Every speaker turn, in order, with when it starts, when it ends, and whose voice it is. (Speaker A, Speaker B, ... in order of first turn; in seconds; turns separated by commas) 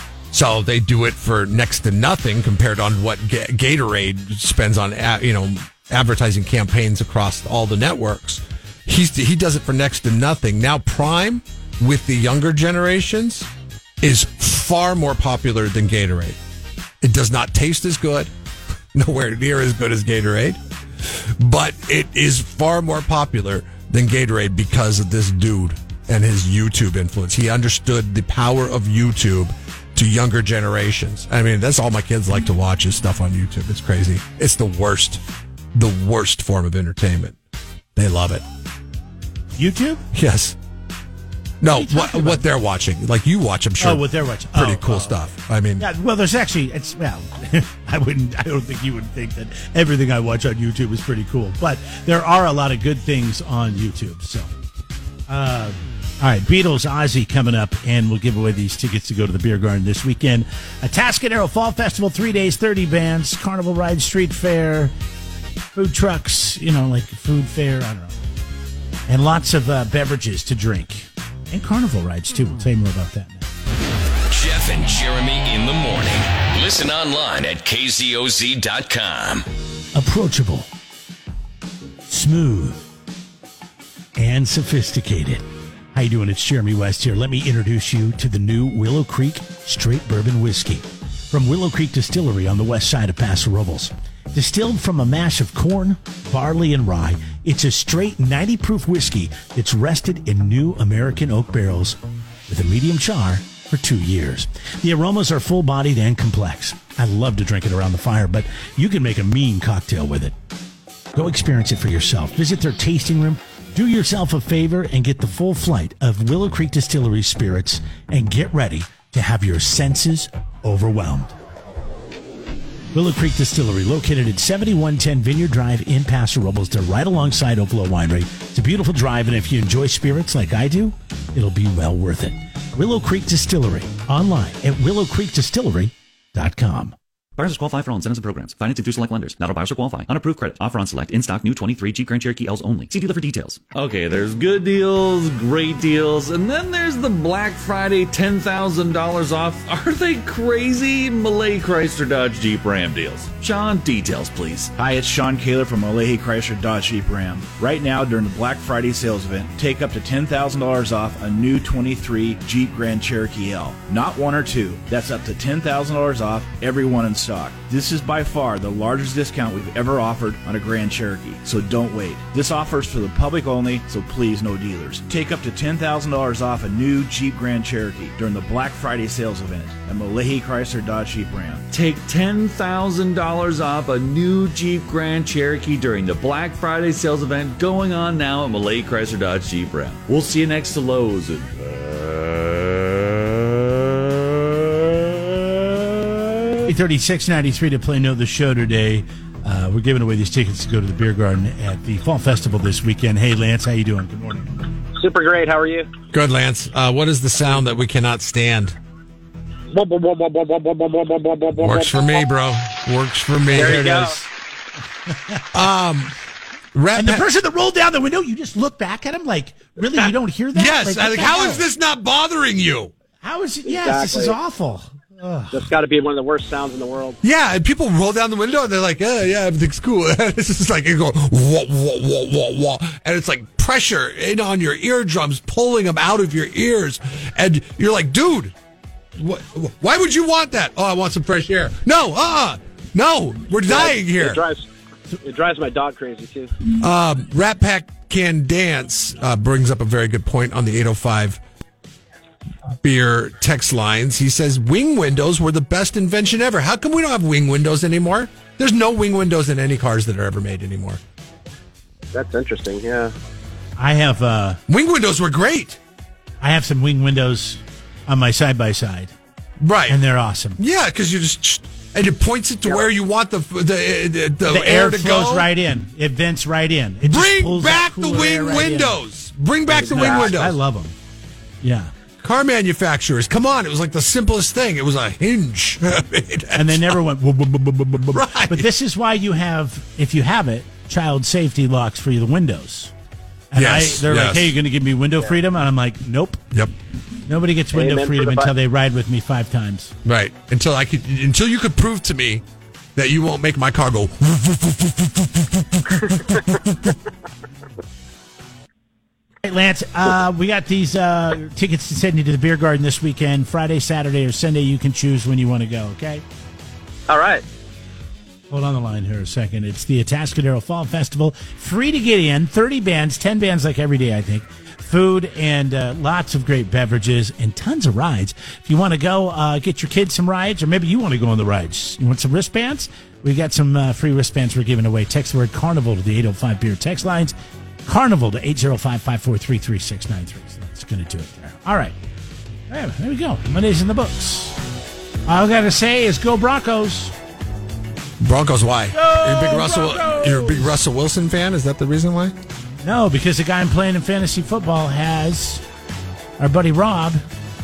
Speaker A: 0.3-13.5, Speaker A: 14.0-16.4, Speaker A: 17.0-18.3, Speaker A: 18.9-35.2, Speaker A: 35.7-37.4, Speaker A: 38.0-38.4, Speaker B: 39.5-40.0, Speaker A: 40.1-40.6, Speaker A: 41.6-45.9, Speaker B: 41.6-42.4, Speaker B: 43.8-45.2, Speaker B: 45.8-54.5, Speaker B: 55.3-64.9, Speaker B: 65.7-68.2, Speaker B: 69.1-73.5, Speaker C: 74.3-79.4, Speaker B: 79.9-80.7, Speaker B: 82.1-82.8, Speaker B: 84.2-110.3, Speaker B: 111.1-121.3, Speaker B: 122.9-136.9, Speaker D: 137.3-143.6, Speaker E: 143.7-154.7, Speaker F: 154.8-181.6, Speaker E: 181.7-193.1, Speaker B: 196.6-204.5, Speaker G: 205.0-205.9, Speaker A: 206.1-208.8, Speaker G: 209.7-212.2, Speaker A: 211.5-214.1, Speaker G: 213.5-214.2, Speaker B: 213.5-214.2, Speaker B: 215.1-215.5, Speaker A: 215.5-216.1, Speaker A: 216.7-217.2, Speaker B: 216.9-221.6, Speaker A: 220.0-222.9, Speaker B: 223.2-225.6, Speaker G: 223.7-224.4, Speaker G: 225.5-227.2, Speaker A: 227.2-238.5, Speaker A: 239.2-244.4, Speaker G: 243.7-246.5, Speaker A: 246.8-251.4, Speaker A: 252.8-261.0, Speaker G: 262.1-263.1, Speaker B: 263.8-264.6, Speaker A: 264.7-265.8, Speaker B: 266.4-269.1, Speaker A: 269.6-270.0, Speaker B: 269.9-270.6, Speaker A: 270.6-275.5, Speaker B: 274.4-279.0, Speaker A: 277.0-280.6, Speaker B: 279.7-280.9, Speaker B: 281.6-281.9, Speaker A: 282.2-287.0, Speaker B: 286.5-292.9, Speaker A: 288.1-288.7, Speaker B: 293.5-296.4, Speaker A: 293.5-294.6, Speaker B: 297.2-299.9, Speaker G: 297.7-298.5, Speaker A: 300.0-302.4, Speaker A: 302.9-306.9, Speaker B: 309.4-316.2, Speaker G: 317.1-317.4, Speaker B: 318.5-337.3, Speaker B: 337.9-342.0, Speaker B: 342.7-344.6, Speaker B: 345.2-347.1, Speaker A: 348.2-352.3, Speaker B: 348.9-350.7, Speaker B: 352.8-355.6, Speaker B: 356.4-357.2